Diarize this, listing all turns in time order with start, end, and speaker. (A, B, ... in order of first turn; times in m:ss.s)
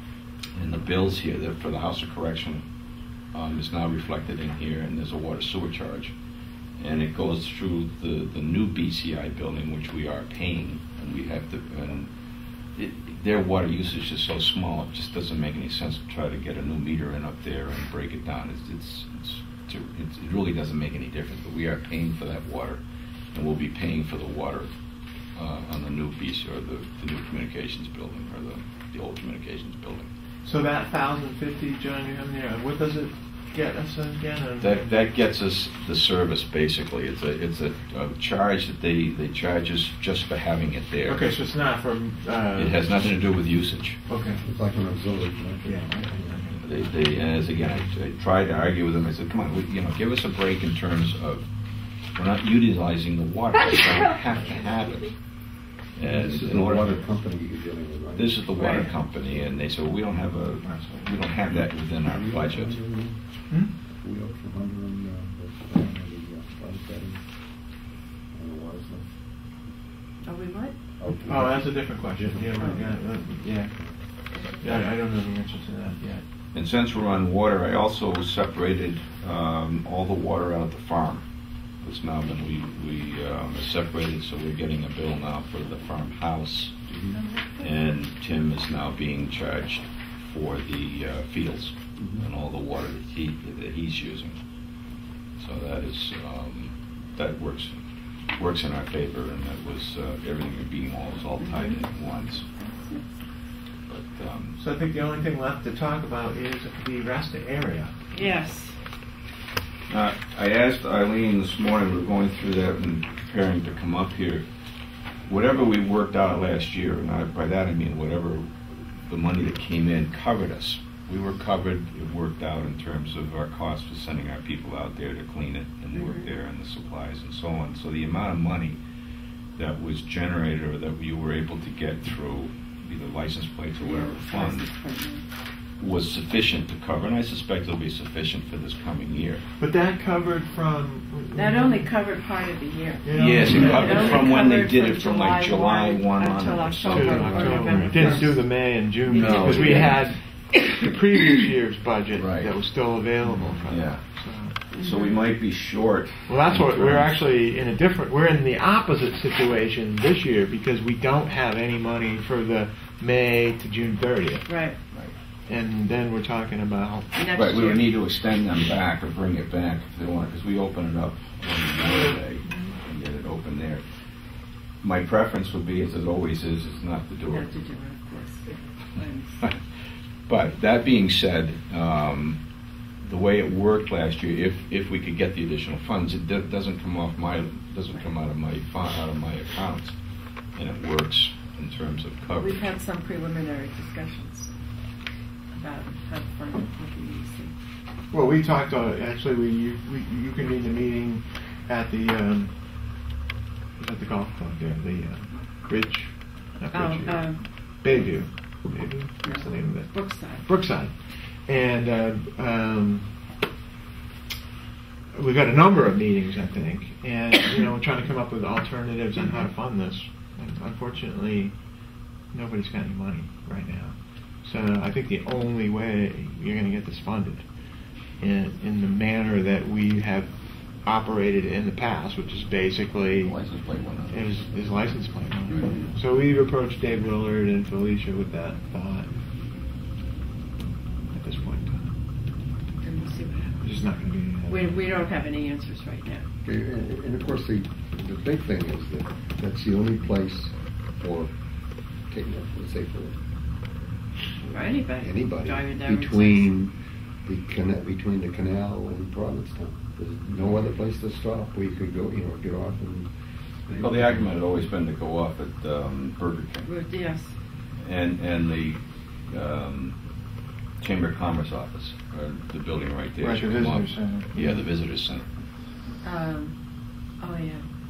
0:00.6-0:02.6 A
0:03.3-0:06.1 A
0:06.8-0:12.1 A
0:12.8-0:22.8 A
0:23.3-0:24.7 A
0:25.4-0:30.1 A
0:30.4-0:35.0 B
0:34.6-0:41.3 A
0:41.0-0:42.8 B
0:42.6-0:44.0 A
0:44.1-0:44.4 B
0:44.4-0:46.4 C
0:45.6-0:47.9 B
0:46.6-0:51.5 A
0:52.2-0:55.2 A
0:56.0-0:57.0 A
0:56.0-0:58.4 C
0:58.2-1:02.8 A
0:58.6-0:58.9 D
1:00.6-1:01.1 B
1:02.0-1:03.2 C
1:04.0-1:07.2 C
1:08.3-1:09.1 C
1:10.2-1:10.8 D
1:11.0-1:14.0 C
1:11.2-1:13.8 B
1:12.6-1:12.9 D
1:14.3-1:14.9 D
1:14.6-1:16.2 B
1:16.5-1:21.2 A
1:21.8-1:26.8 A
1:26.9-1:27.2 C
1:27.1-1:27.7 D
1:27.6-1:34.4 A
1:32.0-1:32.2 C
1:35.4-1:37.8 A
1:38.4-1:42.5 A
1:41.4-1:41.8 D
1:42.5-1:43.2 D
1:43.9-1:44.6 A
1:44.6-1:48.3 B
1:48.2-1:48.8 D
1:49.9-1:54.5 A
1:55.3-2:08.8 A
2:06.0-2:06.2 D
2:09.6-2:14.7 A
2:13.8-2:15.2 D
2:15.8-2:19.4 A
2:19.6-2:22.0 B
2:21.3-2:28.4 D
2:23.0-2:24.3 B
2:23.1-2:28.3 A
2:26.9-2:34.6 B
2:29.0-2:30.1 A
2:29.3-2:29.9 D
2:32.1-2:32.5 A
2:33.5-2:34.0 A
2:34.7-2:35.2 D
2:34.7-2:37.2 A
2:36.3-2:44.6 B
2:44.5-2:44.8 D
2:45.5-2:47.2 B
2:47.1-2:47.9 D
2:47.3-2:53.8 A
2:51.9-2:52.7 B
2:54.8-2:57.5 A
2:57.3-2:59.5 D
3:00.3-3:02.4 A
3:03.0-3:10.0 A
3:10.5-3:12.7 A
3:12.3-3:14.5 D
3:15.5-3:17.5 D
3:18.1-3:22.5 B
3:23.8-3:33.1 B
3:26.7-3:27.5 D
3:29.2-3:30.5 D
3:35.1-3:41.6 B
3:42.3-3:47.4 B
3:48.2-3:53.4 B
3:53.2-3:54.9 A
3:54.1-3:59.1 B
3:55.5-3:55.9 A
3:55.5-3:55.9 D
4:01.1-4:02.0 B
4:02.8-4:03.9 D
4:03.6-4:04.9 B
4:04.5-4:06.2 D
4:06.4-4:11.3 C
4:12.1-4:13.2 C
4:14.4-4:16.5 D
4:15.0-4:23.1 C
4:23.7-4:24.3 C
4:23.8-4:26.7 A
4:26.6-4:27.3 D
4:27.8-4:30.0 A
4:30.8-4:35.2 A
4:33.2-4:34.3 B
4:36.0-4:36.6 D
4:37.2-4:37.7 D